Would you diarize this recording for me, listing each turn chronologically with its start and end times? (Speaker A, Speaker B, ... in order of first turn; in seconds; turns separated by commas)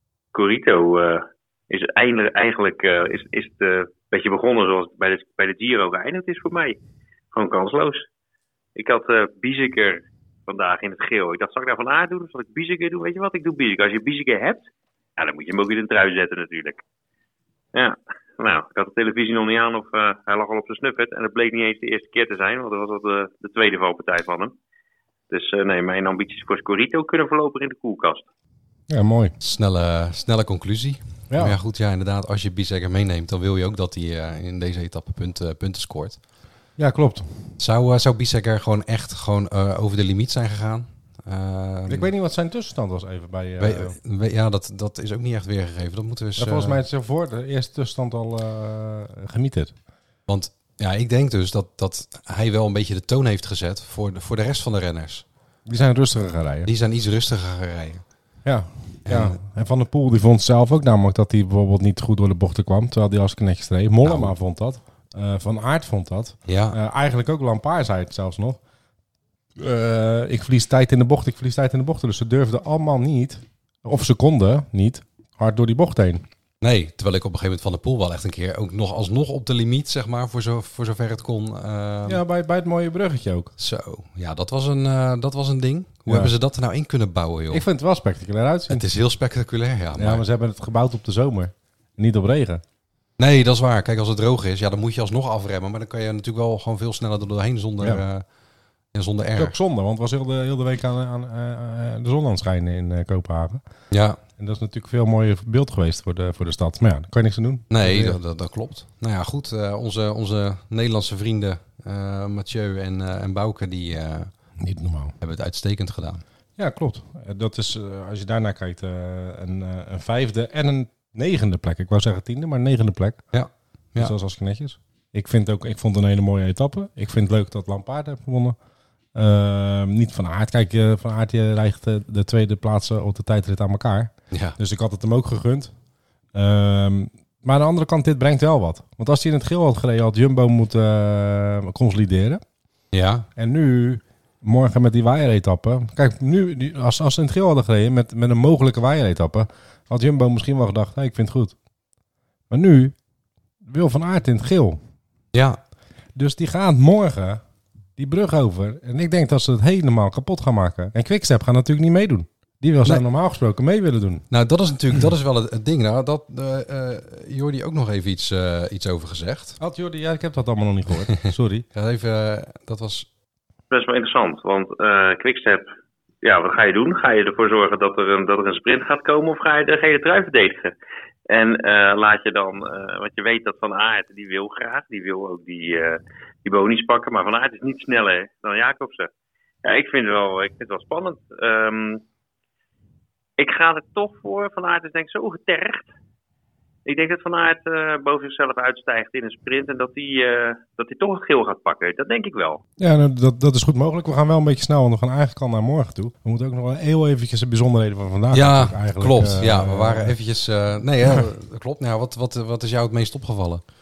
Speaker A: 0.3-6.8, Speaker A: 7.3-8.1, Speaker A: 8.8-14.7, Speaker A: 15.2-16.8, Speaker A: 17.7-24.5, Speaker A: 25.3-28.2, Speaker B: 28.9-29.3, Speaker C: 29.4-36.2, Speaker B: 31.3-31.6, Speaker B: 36.8-37.3, Speaker C: 37.6-42.1, Speaker B: 41.9-44.0, Speaker C: 43.6-46.8, Speaker B: 46.4-49.7, Speaker C: 50.3-55.2, Speaker B: 55.7-56.7, Speaker C: 56.6-58.0, Speaker B: 58.4-68.6, Speaker C: 59.0-59.4, Speaker C: 64.0-64.3, Speaker C: 66.5-66.8, Speaker B: 69.6-76.2, Speaker C: 76.6-82.2, Speaker B: 82.1-83.5, Speaker C: 83.6-87.6, Speaker B: 86.1-86.3, Speaker B: 87.5-88.8, Speaker C: 88.7-90.2, Speaker B: 90.0-92.6, Speaker C: 93.2-98.2, Speaker C: 98.9-99.5, Speaker B: 99.4-103.6, Speaker C: 103.9-104.2, Speaker B: 104.4-108.2, Speaker C: 107.7-114.3, Speaker B: 114.6-115.1, Speaker C: 115.2-116.2, Speaker B: 116.6-123.2, Speaker C: 123.3-124.1, Speaker B: 124.0-128.6, Speaker B: 129.1-135.7, Speaker C: 134.3-134.6, Speaker B: 136.3-142.4, Speaker C: 142.9-143.3, Speaker B: 143.3-151.5, Speaker B: 152.5-152.9, Speaker B: 153.6-154.8, Speaker C: 155.3-155.6, Speaker B: 156.1-157.4, Speaker B: 158.0-164.2, Speaker C: 164.3-169.6, Speaker B: 169.6-171.7, Speaker C: 171.1-173.1, Speaker A: 173.7-175.7, Speaker A: 176.2-180.7, Speaker A: 181.3-189.1, Speaker A: 189.6-192.0, Speaker A: 193.4-195.9, Speaker A: 196.8-202.6, Speaker B: 202.8-210.1, Speaker C: 208.3-213.6